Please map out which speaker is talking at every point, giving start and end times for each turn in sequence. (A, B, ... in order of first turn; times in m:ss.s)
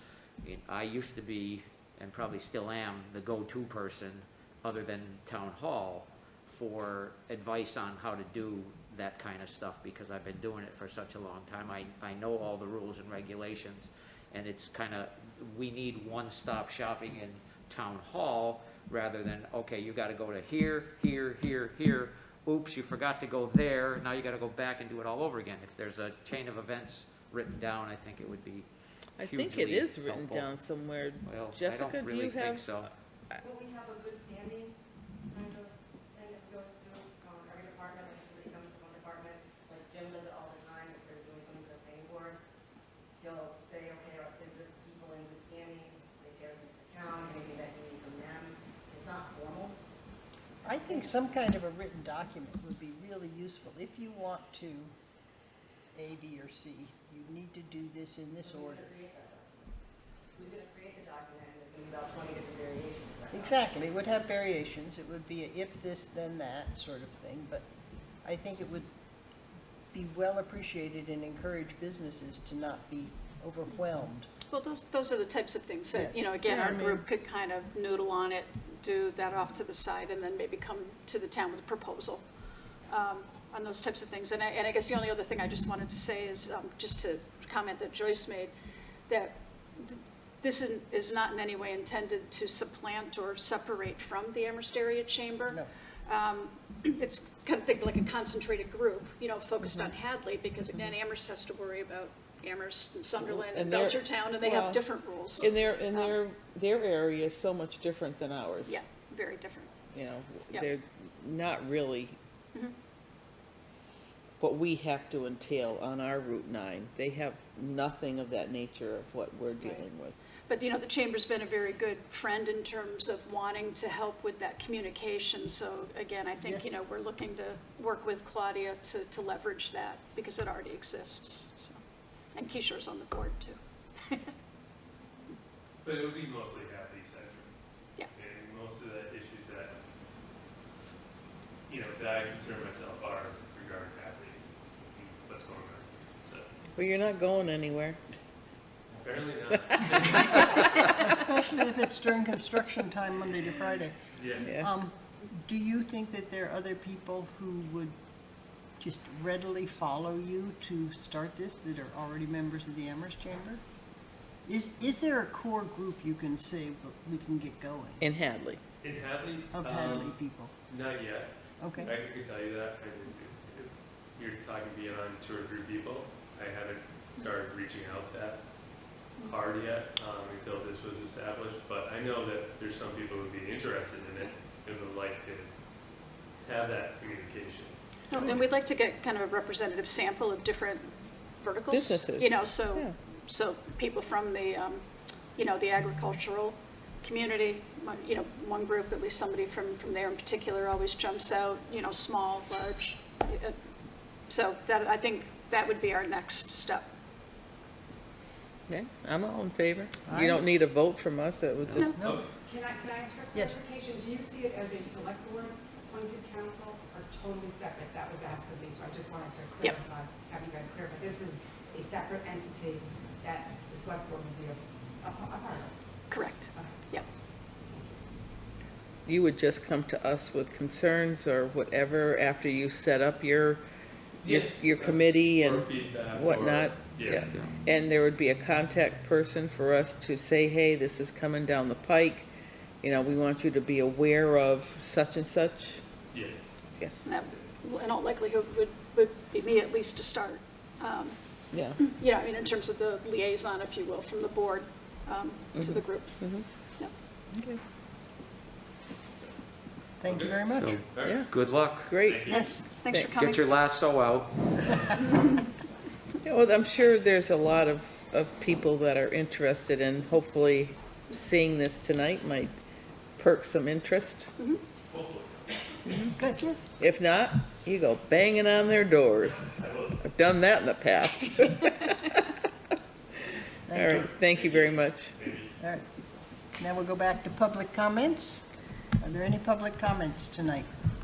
0:00.4-0:30.6 A
0:29.2-0:33.4 B
0:31.2-0:32.9 A
0:33.4-0:34.8 C
0:35.3-0:42.4 C
0:43.2-0:49.8 C
0:50.6-0:54.9 D
0:56.0-0:58.9 D
0:58.4-0:59.6 C
1:00.4-1:03.6 C
1:03.3-1:07.7 D
1:08.2-1:08.9 D
1:09.9-1:14.3 D
1:14.5-1:22.2 E
1:15.9-1:16.3 D
1:16.5-1:17.0 B
1:22.9-1:28.5 E
1:29.1-1:46.2 E
1:43.2-1:48.8 B
1:48.7-1:49.8 E
1:49.9-1:52.2 B
1:54.4-2:00.2 B
1:59.6-1:59.8 E
2:00.5-2:11.8 E
2:06.4-2:06.7 D
2:12.3-2:14.3 E
2:15.8-2:17.5 F
2:18.2-2:19.8 F
2:21.7-2:26.5 F
2:26.8-2:28.0 B
2:28.9-2:30.6 F
2:30.9-2:34.0 D
2:34.1-2:34.5 F
2:34.4-2:34.7 B
2:34.5-2:38.0 D
2:38.8-2:43.6 D
2:44.5-2:48.0 D
2:48.0-2:48.6 B
2:48.8-2:51.3 F
2:49.5-2:50.5 D
2:51.6-2:51.9 D
2:51.9-2:58.4 F
2:59.2-3:05.5 F
3:06.4-3:07.8 F
3:08.1-3:14.8 E
3:11.7-3:13.0 B
3:15.4-3:23.6 E
3:24.3-3:26.9 E
3:28.7-3:32.0 B
3:30.1-3:30.4 D
3:32.0-3:32.2 D
3:32.0-3:32.3 F
3:32.5-3:45.7 G
3:33.3-3:33.6 D
3:46.1-3:47.1 E
3:49.1-3:53.6 B
3:54.2-4:02.3 B
3:54.2-3:57.3 F
4:02.8-4:05.8 B
4:06.1-4:06.4 F
4:07.0-4:16.9 E
4:11.5-4:11.8 B
4:15.5-4:16.5 B
4:20.0-4:20.8 D
4:20.1-4:22.5 F
4:20.6-4:22.0 A
4:21.0-4:23.1 B
4:22.3-4:23.6 E
4:23.1-4:25.2 A
4:26.2-4:32.5 B
4:33.2-4:34.3 B
4:34.9-4:36.0 F
4:35.9-4:36.6 D
4:36.8-4:42.2 B
4:39.3-4:40.0 F
4:43.7-4:44.1 D
4:43.7-4:45.2 B
4:44.0-4:45.6 F
4:45.6-4:45.9 D
4:46.5-4:48.5 D
4:49.0-4:50.7 D